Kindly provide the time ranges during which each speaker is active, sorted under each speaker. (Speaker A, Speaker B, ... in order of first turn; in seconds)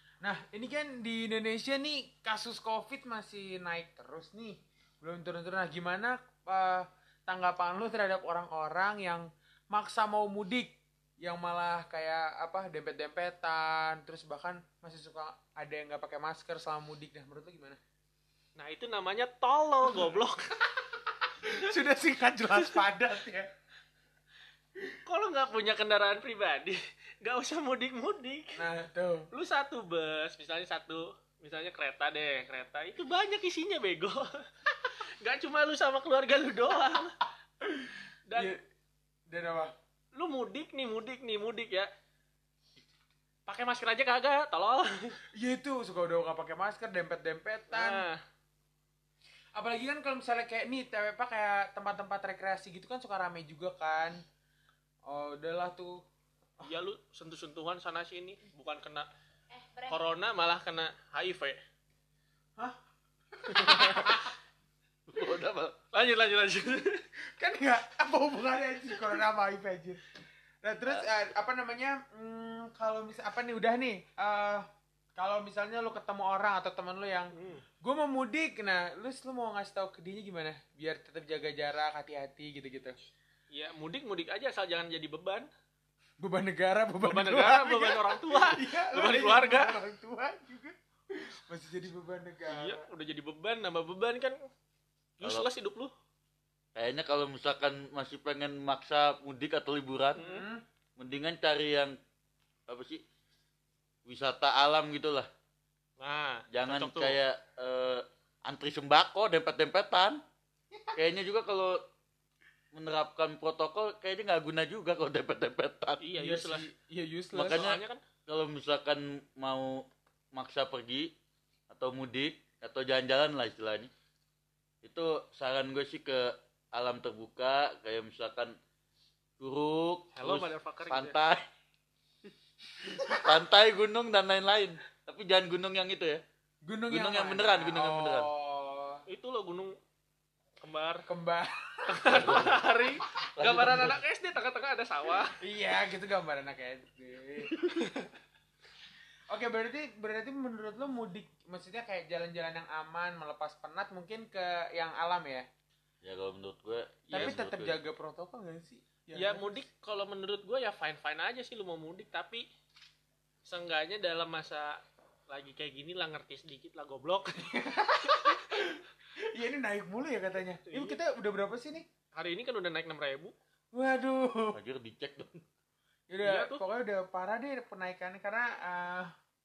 Speaker A: 0.2-17.8, 20.9-23.5, 28.5-29.3, 37.6-38.6, 39.3-39.7, 45.3-48.0, 49.5-54.2, 55.0-56.0, 63.4-64.3, 67.4-70.0, 70.6-83.0, 86.2-92.8, 100.2-100.6, 116.2-117.7, 136.6-139.0, 141.1-142.3, 145.4-148.0, 149.3-155.5, 157.1-159.6, 167.4-171.8, 173.7-174.6, 176.1-179.1
Speaker B: 18.6-20.5, 25.0-28.6, 29.3-34.4, 35.2-37.1, 38.3-38.5, 40.1-41.9, 43.5-45.2, 47.7-48.2, 56.6-59.1, 59.7-61.6, 63.5-64.2, 65.9-67.0, 77.3-77.6, 83.5-85.5, 87.0-89.8, 92.5-94.4, 95.2-95.9, 100.2-100.5, 106.0-107.2, 116.0-116.7, 117.4-118.0, 130.2-131.1, 139.1-139.7, 140.6-141.0, 141.9-145.4, 159.1-162.5, 163.4-167.4, 168.0-168.4, 170.7-171.0, 172.1-173.3, 176.2-176.6
Speaker C: 65.1-65.8, 70.9-71.3, 96.7-100.2, 101.0-101.9, 102.7-103.0, 104.0-105.3, 106.5-110.2, 111.0-111.8, 112.7-116.0, 117.3-121.1, 121.7-123.9, 124.8-128.6, 129.4-131.4, 133.0-136.2, 136.9-138.3, 142.1-142.6, 143.3-144.0, 156.0-157.8, 174.5-175.4